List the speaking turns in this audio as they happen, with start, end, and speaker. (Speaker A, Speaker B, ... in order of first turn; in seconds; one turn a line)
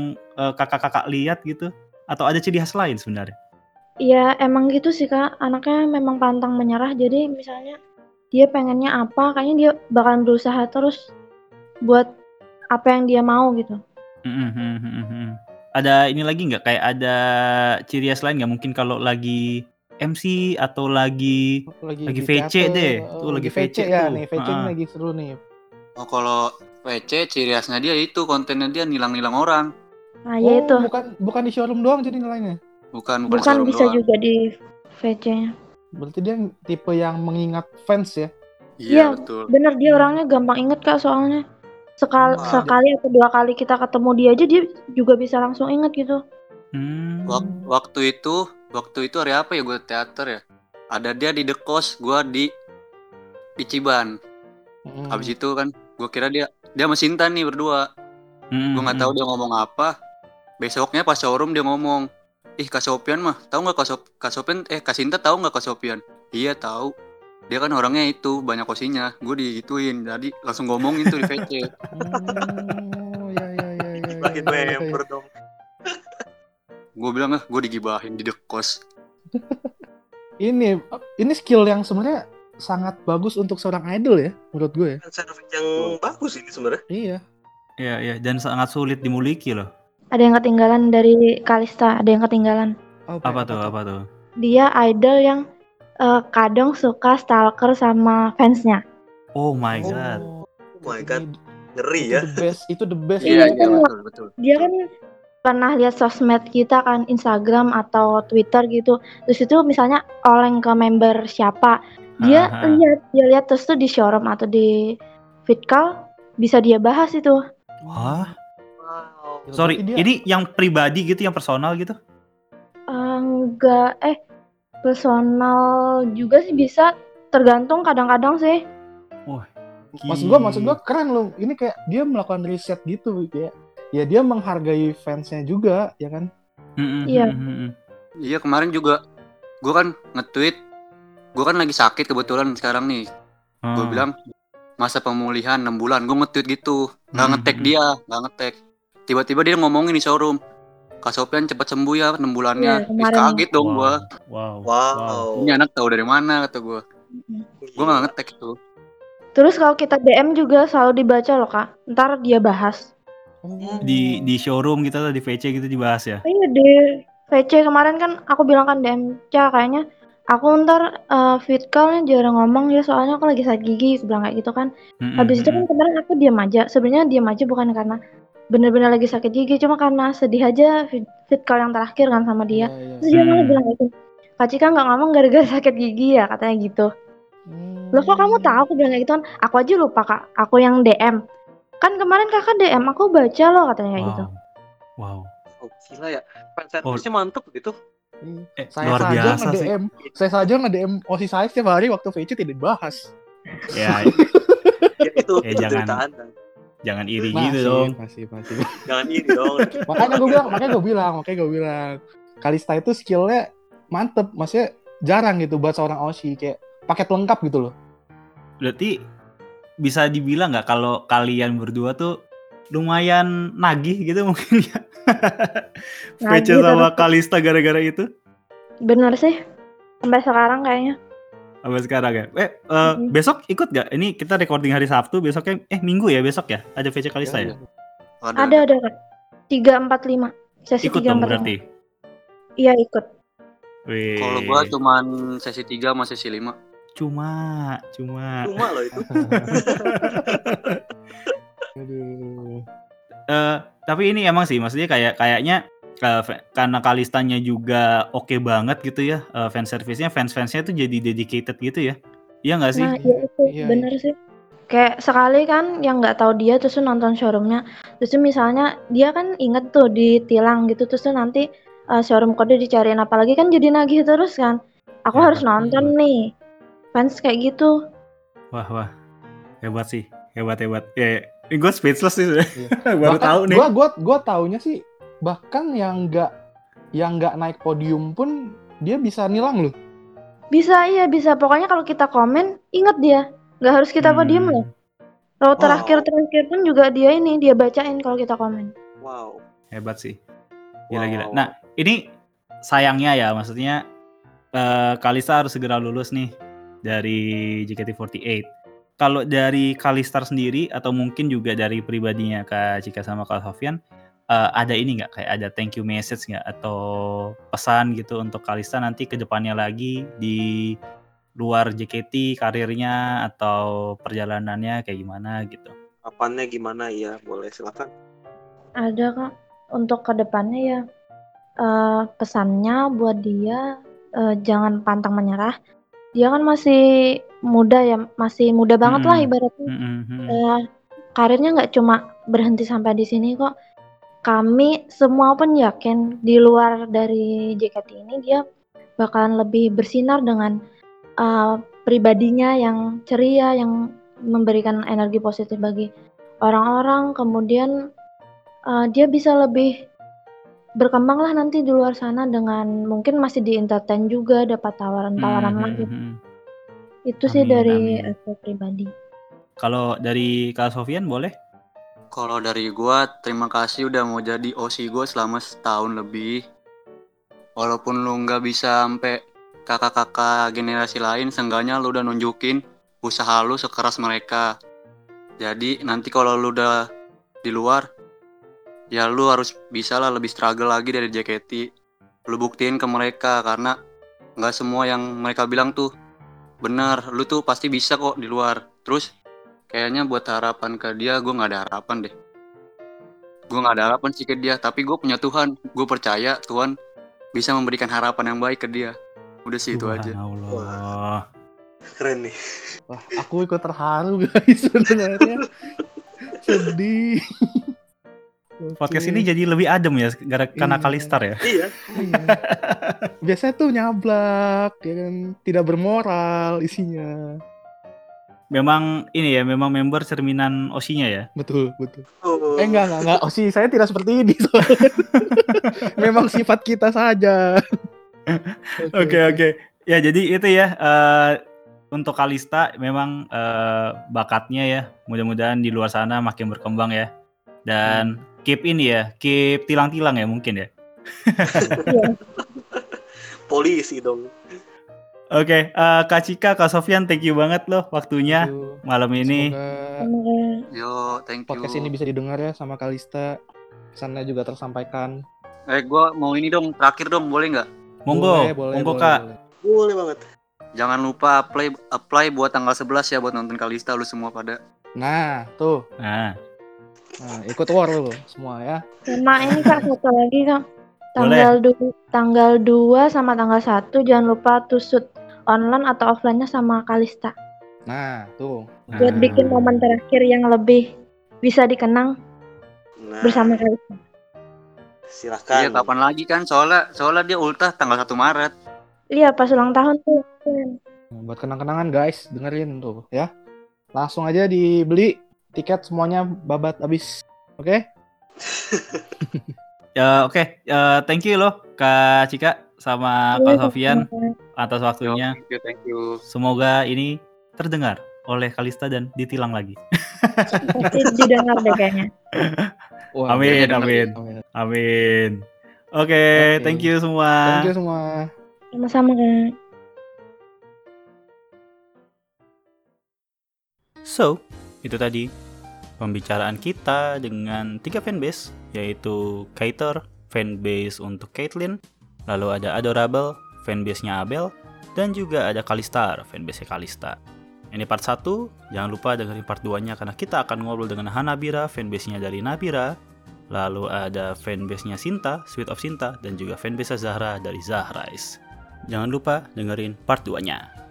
Speaker A: 0.5-3.3
Speaker B: 4.1-7.8
Speaker B: 8.3-11.0
Speaker B: 12.8-13.8
Speaker A: 14.3-17.2
Speaker A: 17.9-19.4
Speaker A: 20.0-21.4
Speaker C: 21.7-25.4
Speaker A: 22.1-24.7
Speaker D: 26.0-29.7
Speaker B: 30.3-30.9
Speaker C: 30.4-32.6
Speaker D: 33.0-34.0
Speaker B: 33.3-34.4
Speaker B: 35.0-35.5
Speaker C: 36.0-38.3
Speaker D: 38.8-39.5
Speaker B: 38.9-41.4
Speaker C: 39.9-40.2
Speaker B: 42.0-46.2
Speaker C: 42.2-42.7
Speaker E: 42.4-42.7
Speaker A: 46.8-47.4
Speaker D: 47.3-50.4
Speaker C: 47.4-47.6
Speaker D: 50.9-52.5
Speaker D: 53.6-54.1
Speaker C: 54.9-55.3
Speaker D: 55.1-57.8
Speaker A: 58.5-59.1
Speaker D: 58.8-59.9
Speaker D: 60.6-62.0
Speaker D: 62.6-66.9
Speaker D: 67.5-71.7
Speaker C: 71.9-75.0
Speaker E: 74.2-75.3
Speaker D: 77.0-78.7
Speaker C: 79.3-79.7
Speaker C: 80.4-85.0
Speaker E: 85.0-86.8
Speaker C: 86.9-87.2
Speaker A: 87.8-89.7
Speaker B: 90.2-92.7
Speaker C: 93.1-93.7
Speaker A: 93.3-94.0
Speaker B: 94.4-95.4
Speaker B: 96.0-98.8
Speaker A: 99.4-100.2
Speaker C: 99.8-101.3
Speaker E: 100.8-101.2
Speaker E: 101.8-102.5
Speaker C: 102.0-103.8
Speaker D: 103.2-104.3
Speaker B: 103.3-103.9
Speaker B: 104.4-104.8
Speaker B: 105.4-114.7
Speaker A: 112.2-112.8
Speaker B: 115.5-115.9
Speaker B: 116.4-117.4
Speaker C: 117.8-118.3
Speaker A: 117.9-118.3
Speaker E: 118.8-119.5
Speaker C: 119.5-120.1
Speaker A: 119.6-122.0
Speaker B: 122.9-124.2
Speaker B: 124.8-125.6
Speaker B: 126.2-128.6
Speaker A: 130.0-130.7
Speaker C: 130.1-136.3
Speaker A: 136.8-137.7
Speaker B: 137.1-137.4
Speaker D: 138.3-139.0
Speaker D: 139.7-140.6
Speaker D: 141.4-143.0
Speaker A: 143.7-144.0
Speaker D: 143.8-144.2
Speaker D: 144.8-148.5
Speaker A: 147.2-147.7
Speaker D: 149.1-150.4
Speaker D: 151.0-154.0
Speaker B: 152.6-153.4
Speaker A: 153.6-155.2
Speaker E: 154.7-155.6
Speaker D: 155.4-156.8
Speaker B: 157.1-157.5
Speaker E: 157.6-158.1
Speaker D: 157.8-158.5
Speaker B: 159.4-162.8
Speaker C: 163.4-164.1
Speaker A: 163.8-166.2
Speaker B: 166.2-169.8
Speaker B: 170.3-178.0
Speaker A: 175.0-175.6
Speaker B: 178.5-186.9
Speaker C: 182.5-183.1
Speaker A: 183.1-183.6
Speaker C: 187.5-188.6
Speaker B: 187.9-191.2
Speaker B: 191.8-194.3
Speaker A: 194.0-194.3
Speaker A: 195.0-195.3
Speaker E: 195.6-197.7
Speaker C: 198.2-203.1
Speaker A: 198.6-199.7
Speaker A: 203.7-204.2
Speaker C: 203.8-204.9
Speaker E: 205.0-206.3
Speaker A: 205.4-206.0
Speaker A: 206.9-207.9
Speaker C: 207.3-208.7
Speaker E: 208.9-210.7
Speaker C: 209.9-213.4
Speaker C: 213.9-217.7
Speaker A: 218.6-218.9
Speaker A: 219.8-222.1
Speaker A: 222.8-225.6
Speaker B: 226.3-227.1
Speaker A: 226.3-228.1
Speaker B: 228.9-229.4
Speaker B: 230.0-230.9
Speaker A: 231.7-237.5
Speaker D: 237.3-237.5
Speaker D: 238.2-238.6
Speaker B: 238.4-238.9
Speaker B: 239.5-241.6
Speaker A: 240.8-241.6
Speaker B: 242.6-243.1
Speaker A: 243.9-244.7
Speaker D: 244.2-246.6
Speaker A: 247.0-248.4
Speaker E: 248.5-250.7
Speaker C: 249.0-250.4
Speaker A: 249.4-250.2
Speaker C: 251.8-252.6
Speaker A: 253.3-262.0
Speaker A: 262.5-262.9
Speaker B: 262.8-264.1
Speaker C: 263.0-263.9
Speaker B: 264.7-271.4
Speaker B: 272.0-274.6
Speaker B: 275.1-276.2
Speaker A: 275.2-275.9
Speaker B: 276.9-277.7
Speaker A: 278.5-278.9
Speaker A: 279.6-283.6
Speaker C: 282.6-286.3
Speaker C: 287.0-288.3
Speaker C: 288.9-289.8
Speaker B: 290.5-294.6
Speaker A: 294.0-294.6
Speaker B: 295.4-298.7
Speaker E: 295.6-296.1
Speaker E: 299.0-299.4
Speaker A: 299.7-300.2
Speaker E: 300.9-301.5
Speaker A: 300.9-302.0
Speaker A: 302.7-303.8
Speaker A: 304.6-306.3
Speaker A: 306.9-308.4
Speaker A: 309.0-313.8
Speaker A: 314.3-316.8
Speaker A: 317.5-320.4
Speaker A: 321.4-325.7
Speaker E: 326.1-327.9
Speaker B: 328.9-329.3
Speaker B: 329.8-330.8
Speaker B: 331.6-333.6
Speaker B: 334.2-335.5
Speaker B: 336.2-336.8
Speaker B: 337.5-339.7
Speaker A: 338.9-340.4
Speaker B: 340.3-340.6
Speaker B: 341.2-343.5
Speaker B: 344.3-348.4
Speaker B: 349.0-350.5
Speaker B: 351.2-353.7
Speaker B: 354.3-355.9
Speaker B: 356.4-357.7
Speaker B: 358.7-359.7
Speaker B: 360.8-365.9
Speaker A: 365.2-366.1
Speaker B: 367.1-368.9
Speaker A: 367.3-367.9
Speaker A: 369.6-371.3
Speaker D: 372.1-376.3
Speaker D: 377.6-384.4
Speaker D: 385.4-386.7
Speaker D: 387.4-387.8
Speaker D: 388.9-391.6
Speaker D: 392.3-393.7
Speaker D: 394.4-395.9
Speaker D: 396.6-399.1
Speaker D: 399.7-402.1
Speaker D: 403.5-406.7
Speaker D: 407.4-408.9
Speaker D: 409.5-410.2
Speaker A: 409.7-411.2
Speaker E: 410.5-410.8
Speaker E: 412.0-412.3
Speaker C: 412.9-415.4
Speaker C: 416.4-417.2
Speaker C: 418.6-419.3
Speaker A: 418.8-421.4
Speaker C: 420.6-421.2
Speaker E: 421.4-421.7
Speaker C: 421.9-422.4
Speaker A: 422.0-423.1
Speaker C: 423.3-427.1
Speaker A: 428.6-431.3
Speaker C: 431.4-432.1
Speaker E: 432.2-432.8
Speaker C: 432.6-437.4
Speaker A: 438.3-441.4
Speaker C: 438.8-439.4
Speaker A: 441.9-447.1
Speaker A: 447.7-450.7
Speaker C: 447.9-448.2
Speaker A: 451.3-451.8
Speaker B: 451.9-452.2
Speaker E: 452.4-453.0
Speaker E: 453.5-454.3
Speaker A: 455.4-459.5
Speaker C: 458.3-458.7
Speaker C: 459.2-460.0
Speaker B: 460.0-460.6
Speaker D: 460.7-461.9
Speaker C: 461.5-463.3
Speaker C: 464.0-465.1
Speaker D: 465.7-467.7
Speaker A: 468.1-469.2
Speaker C: 468.1-469.4
Speaker E: 469.6-470.2
Speaker D: 470.8-474.6
Speaker C: 475.0-475.8
Speaker A: 476.0-476.3
Speaker C: 477.2-478.8
Speaker B: 479.1-480.6
Speaker E: 479.5-479.8
Speaker B: 481.2-487.3
Speaker A: 481.2-481.5
Speaker C: 487.9-489.5
Speaker A: 488.9-489.4
Speaker B: 489.0-490.8
Speaker B: 491.4-492.1
Speaker E: 493.0-493.6
Speaker B: 493.2-494.0
Speaker E: 495.1-495.9
Speaker D: 495.5-498.5
Speaker B: 499.1-500.8
Speaker C: 501.2-503.3
Speaker C: 504.0-507.1
Speaker E: 508.4-509.1
Speaker C: 509.2-509.5
Speaker A: 510.0-514.1
Speaker B: 513.4-514.3
Speaker A: 514.6-515.4
Speaker D: 515.0-516.2
Speaker A: 516.3-521.0
Speaker B: 520.7-522.1
Speaker C: 523.2-524.4
Speaker A: 523.3-525.4
Speaker D: 523.5-524.1
Speaker A: 526.0-527.7
Speaker C: 526.4-526.9
Speaker C: 527.5-528.1
Speaker B: 528.8-529.5
Speaker A: 534.1-535.3
Speaker A: 536.0-541.8
Speaker A: 542.3-547.2
Speaker A: 547.7-552.9
Speaker A: 553.5-558.4
Speaker A: 558.9-560.6